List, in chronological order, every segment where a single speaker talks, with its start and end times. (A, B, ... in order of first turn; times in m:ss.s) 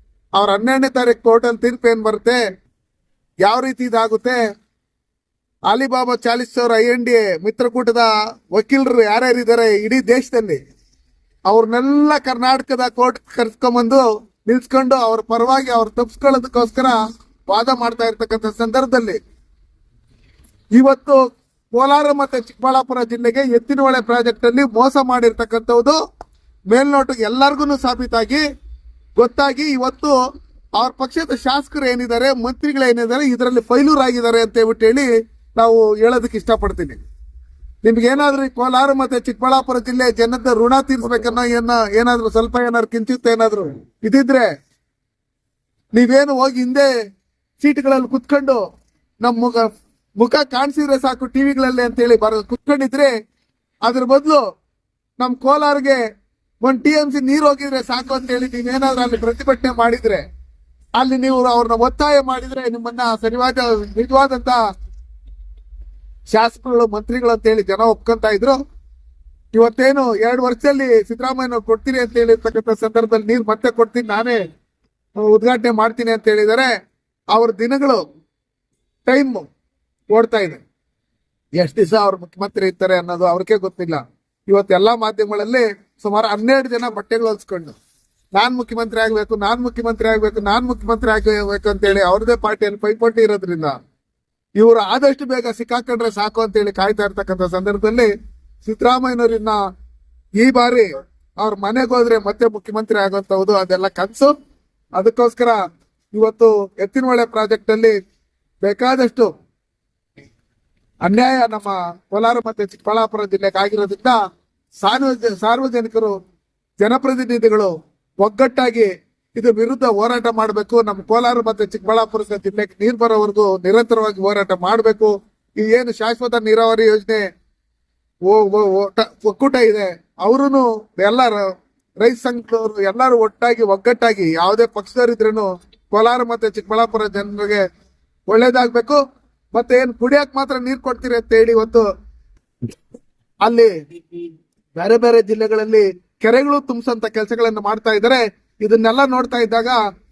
0:00.4-0:02.4 A
0:03.4-0:04.4 A
0:05.7-0:10.6 A
0:11.5-0:19.2 A
0:20.8-0:26.0 A
0:26.7-0:28.4 A
0:29.2-0:30.2 A
0:30.8-0:37.0 A
0:37.8-0:44.5 A
0:46.0-0:46.9 A
0:47.6-0:48.6 A
0:49.2-0:53.1 A
0:53.9-0:54.4 A
0:55.2-0:56.0 A
0:56.6-1:00.2 A
1:01.0-1:04.6 A
1:06.3-1:08.6 A
1:09.5-1:14.4 A
1:15.2-1:16.7 A
1:17.3-1:18.0 A
1:19.1-1:19.5 A
1:20.1-1:20.6 A
1:21.6-1:27.8 A
1:28.4-1:33.8 A
1:34.6-1:38.1 A
1:38.6-1:39.6 A
1:40.4-1:44.3 A
1:45.0-1:45.6 A
1:46.1-1:48.0 A
1:48.6-1:49.3 A
1:51.0-1:54.2 A
1:54.8-1:56.2 A
1:56.8-2:07.3 A
2:08.3-2:11.5 A
2:12.0-2:17.6 A
2:18.3-2:19.0 A
2:19.5-2:21.9 A
2:23.4-2:24.2 A
2:24.8-2:29.8 A